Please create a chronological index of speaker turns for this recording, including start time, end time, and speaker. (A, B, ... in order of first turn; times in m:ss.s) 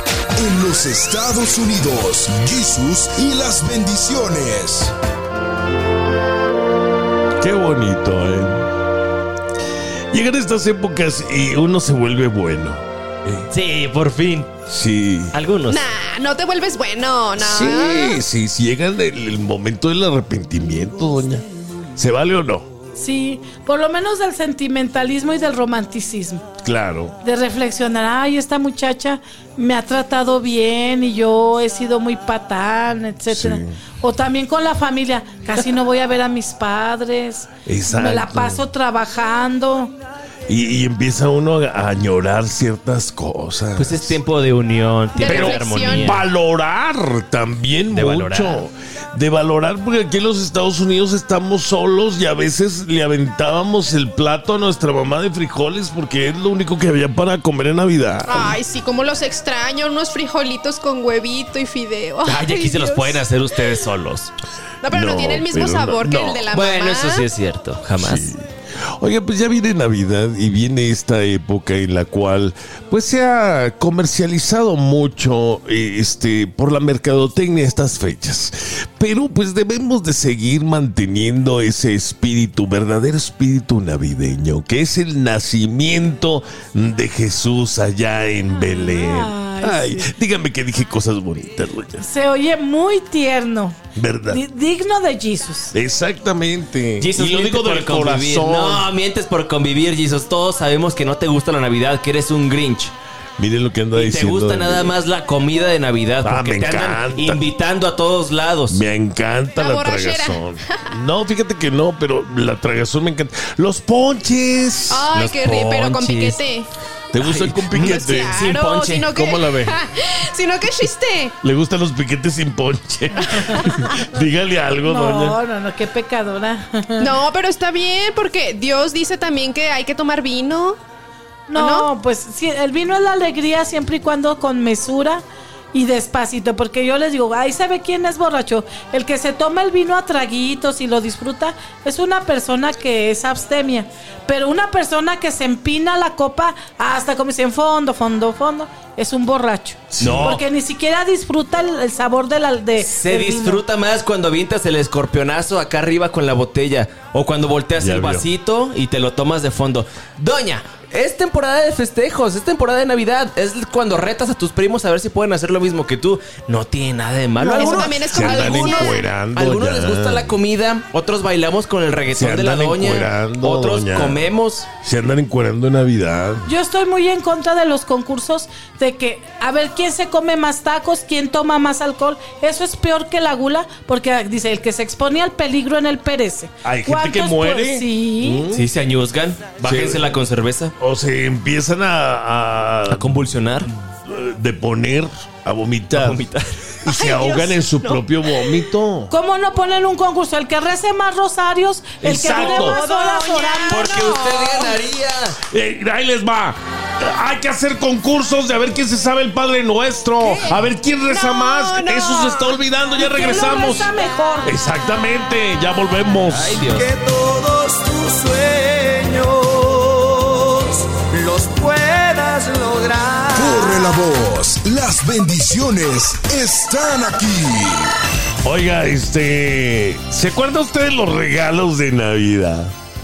0:00.3-0:04.9 A
0:07.4-0:08.7 B
0:10.1-0:13.5 B
0:13.5-0:14.5 C
0:14.7-0:15.4 B
0:15.3-0:15.8 C
0:15.7-0:18.2 D
0:17.4-0:21.4 B
0:22.0-0:22.7 B
0:23.0-0:26.4 E
0:26.6-0:27.1 B
0:27.2-0:39.9 E
0:33.3-0:33.8 B
0:37.6-0:38.7 B
0:40.5-0:44.2 B
0:43.8-0:46.3 C
0:45.1-0:46.2 D
0:45.2-0:58.6 B
0:47.9-0:48.7 C
0:58.2-1:03.8 D
1:02.2-1:04.3 C
1:04.8-1:07.3 D
1:04.9-1:06.4 B
1:06.5-1:08.3 C
1:08.0-1:08.4 B
1:09.0-1:32.1 B
1:28.5-1:30.1 E
1:32.0-1:33.8 E
1:33.9-1:34.4 B
1:34.3-1:35.7 E
1:35.7-1:38.9 B
1:37.0-1:42.9 C
1:43.4-1:44.9 B
1:43.9-1:48.8 C
1:46.2-1:47.4 B
1:48.7-1:55.1 B
1:49.6-1:50.5 D
1:54.9-1:56.7 D
1:55.1-1:56.4 C
1:57.1-1:58.4 B
1:57.2-1:57.7 C
1:57.7-2:01.3 D
1:58.3-1:59.1 C
1:59.1-1:59.8 B
2:01.4-2:05.4 B
2:04.8-2:07.1 E
2:07.0-2:10.8 D
2:11.5-2:33.6 E
2:11.5-2:11.9 D
2:29.9-2:30.4 B
2:30.0-2:30.4 C
2:32.8-2:54.7 C
2:37.8-2:38.3 B
2:47.4-2:49.0 D
2:47.5-2:47.8 E
2:47.8-2:50.3 B
2:52.1-2:54.2 B
2:54.8-2:56.5 B
2:56.4-3:08.5 E
3:06.6-3:08.7 B
3:08.5-3:10.7 C
3:09.6-3:10.2 B
3:10.8-3:13.3 B
3:12.9-3:13.7 C
3:14.0-3:16.2 B
3:15.9-3:16.7 C
3:16.8-3:19.1 B
3:16.8-3:18.6 D
3:19.1-3:23.9 E
3:22.0-3:22.8 B
3:22.3-3:24.8 D
3:23.7-3:25.4 C
3:25.5-3:33.9 B
3:30.2-3:32.6 D
3:33.0-3:34.6 E
3:34.4-3:36.7 B
3:36.3-3:36.9 C
3:36.8-3:39.5 D
3:37.0-3:39.2 F
3:41.1-3:41.7 D
3:41.4-3:43.2 F
3:43.3-3:43.8 D
3:43.3-3:47.9 A
3:48.4-3:52.7 B